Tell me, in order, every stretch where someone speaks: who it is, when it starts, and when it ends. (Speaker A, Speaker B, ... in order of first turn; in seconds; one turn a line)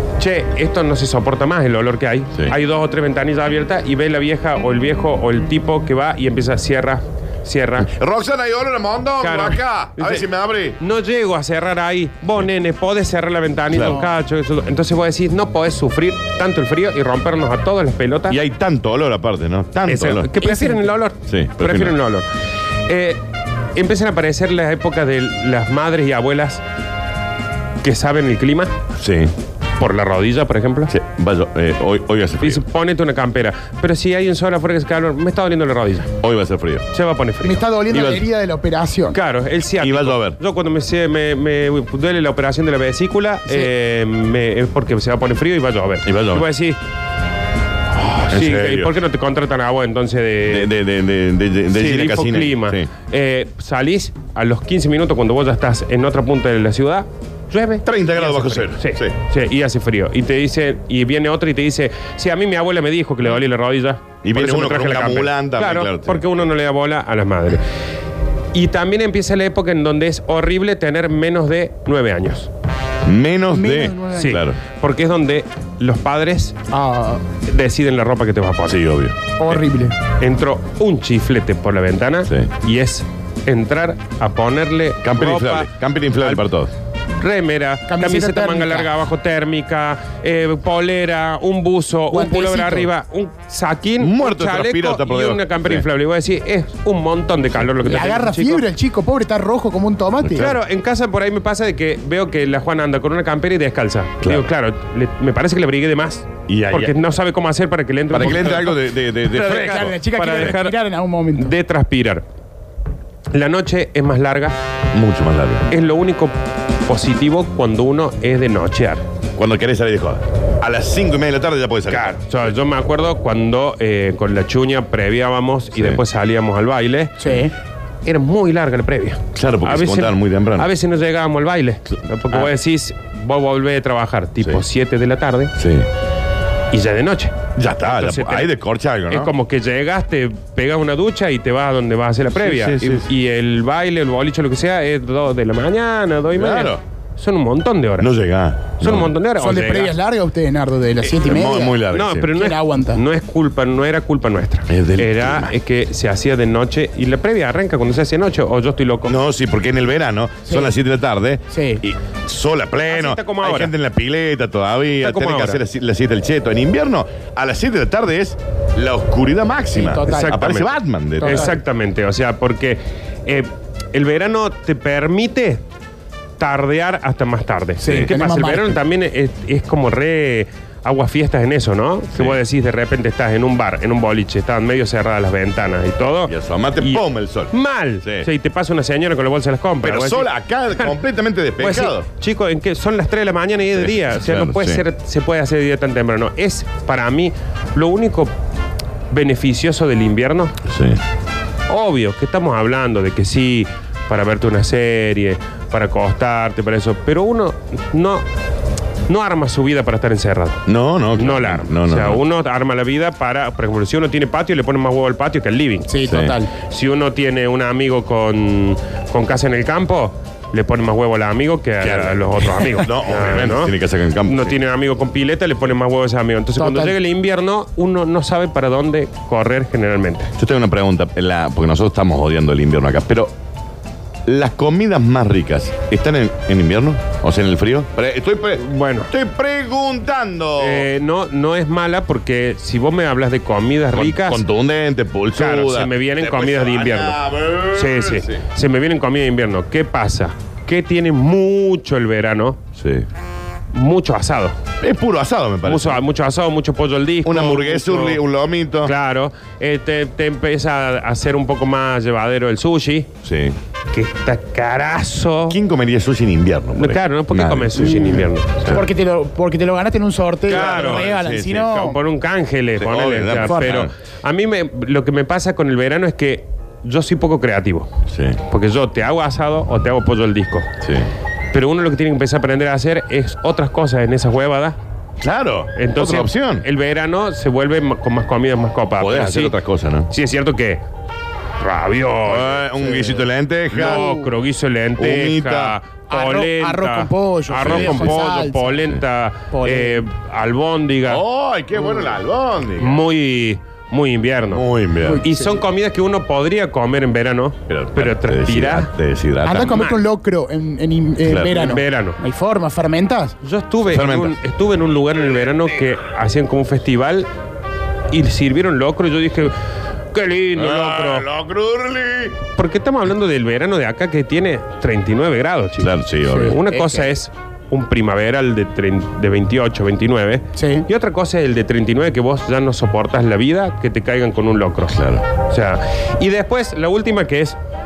Speaker A: 0.2-7.9
Speaker B: 7.8-10.8
Speaker A: 9.2-10.3
Speaker A: 10.8-18.4
Speaker B: 13.7-14.0
Speaker B: 18.3-20.4
Speaker A: 19.9-22.3
Speaker C: 20.4-20.8
Speaker B: 21.3-21.9
Speaker A: 22.9-23.2
Speaker A: 23.7-26.6
Speaker A: 27.8-28.7
Speaker B: 29.0-29.3
Speaker A: 29.8-30.9
Speaker B: 30.9-32.6
Speaker A: 32.4-36.1
Speaker B: 36.2-36.8
Speaker A: 36.9-37.6
Speaker C: 37.4-39.2
Speaker B: 37.9-38.3
Speaker A: 39.1-46.8
Speaker B: 39.8-40.4
Speaker C: 43.5-43.7
Speaker B: 46.0-46.5
Speaker B: 48.0-48.9
Speaker A: 48.3-50.7
Speaker B: 50.4-52.9
Speaker A: 51.7-67.6
Speaker B: 57.8-59.1
Speaker B: 64.2-66.4
Speaker A: 68.5-72.5
Speaker B: 73.0-74.6
Speaker C: 73.5-74.4
Speaker A: 74.1-76.5
Speaker C: 76.7-77.2
Speaker A: 77.4-78.8
Speaker B: 78.7-79.6
Speaker C: 79.4-79.9
Speaker A: 80.2-86.5
Speaker B: 85.0-86.7
Speaker A: 87.2-98.7
Speaker C: 87.9-88.9
Speaker C: 92.1-92.9
Speaker B: 94.0-95.8
Speaker C: 97.8-100.5
Speaker B: 100.2-100.5
Speaker A: 100.3-110.8
Speaker B: 104.2-104.5
Speaker B: 106.5-106.9
Speaker B: 108.1-110.5
Speaker C: 109.6-111.5
Speaker A: 111.3-112.2
Speaker A: 113.3-114.5
Speaker B: 114.9-115.6
Speaker A: 115.7-119.0
Speaker B: 119.4-122.2
Speaker A: 121.9-127.2
Speaker B: 125.7-126.0
Speaker C: 127.2-127.5
Speaker A: 128.0-135.5
Speaker B: 129.3-130.7
Speaker B: 132.3-132.5
Speaker B: 135.6-135.8
Speaker A: 136.7-138.5
Speaker B: 137.5-139.3
Speaker A: 139.1-148.1
Speaker B: 142.3-143.1
Speaker B: 146.3-146.8
Speaker B: 148.0-149.1
Speaker A: 148.8-149.9
Speaker C: 149.3-153.0
Speaker B: 151.0-152.3
Speaker A: 151.9-159.2
Speaker B: 154.7-155.6
Speaker B: 159.1-171.6
Speaker C: 160.5-160.7
Speaker C: 161.5-161.8
Speaker A: 162.8-163.7
Speaker A: 165.0-165.6
Speaker C: 169.7-170.4
Speaker A: 170.0-175.6
Speaker C: 171.2-171.6
Speaker A: 176.4-191.0
Speaker C: 177.8-178.8
Speaker B: 177.8-178.1
Speaker B: 182.1-182.4
Speaker B: 186.3-188.3
Speaker B: 189.8-192.1
Speaker A: 191.6-198.3
Speaker B: 193.7-194.8
Speaker A: 199.1-200.6
Speaker B: 200.7-201.0
Speaker A: 201.7-208.2
Speaker A: 209.1-210.6
Speaker B: 210.7-212.2
Speaker A: 211.1-215.9
Speaker C: 215.9-216.5
Speaker B: 216.0-216.4
Speaker A: 216.7-230.3
Speaker B: 221.8-224.5
Speaker C: 222.5-222.8
Speaker C: 226.6-227.0
Speaker B: 230.4-233.3
Speaker B: 234.3-240.9
Speaker A: 238.5-239.1
Speaker A: 240.6-244.4
Speaker B: 243.9-248.4
Speaker A: 245.3-247.2
Speaker A: 247.7-252.6
Speaker B: 252.8-253.1
Speaker A: 253.7-254.6
Speaker B: 254.8-256.0
Speaker A: 255.6-258.2
Speaker B: 257.2-258.9
Speaker A: 258.8-263.1
Speaker B: 263.2-263.6
Speaker A: 263.9-265.6
Speaker B: 265.5-268.9
Speaker A: 266.7-268.6
Speaker C: 267.8-272.0
Speaker B: 270.4-271.9
Speaker A: 270.5-271.1
Speaker A: 271.6-277.9
Speaker B: 272.8-273.9
Speaker C: 273.4-273.8
Speaker B: 278.1-278.4
Speaker A: 278.5-280.7
Speaker B: 280.8-281.1
Speaker A: 281.5-284.8
Speaker B: 285.2-286.6
Speaker A: 285.8-289.5
Speaker B: 289.0-290.1
Speaker A: 290.1-290.8
Speaker A: 291.6-301.2
Speaker B: 292.2-294.1
Speaker C: 293.8-294.3
Speaker B: 295.0-295.8
Speaker C: 296.1-298.8
Speaker B: 297.6-298.3
Speaker C: 299.5-300.0
Speaker B: 301.0-303.0
Speaker A: 302.8-304.6
Speaker B: 304.5-305.2
Speaker C: 305.0-305.6
Speaker A: 305.2-308.9
Speaker B: 307.7-309.8
Speaker C: 309.4-313.4
Speaker A: 309.6-310.0
Speaker B: 311.2-311.6
Speaker A: 311.4-312.2
Speaker A: 313.4-317.3
Speaker B: 313.8-314.4
Speaker A: 318.1-319.5
Speaker A: 320.1-321.2
Speaker B: 320.6-322.4
Speaker A: 322.5-337.6
Speaker B: 325.8-326.6
Speaker C: 326.2-327.1
Speaker C: 330.6-330.9
Speaker B: 334.9-335.2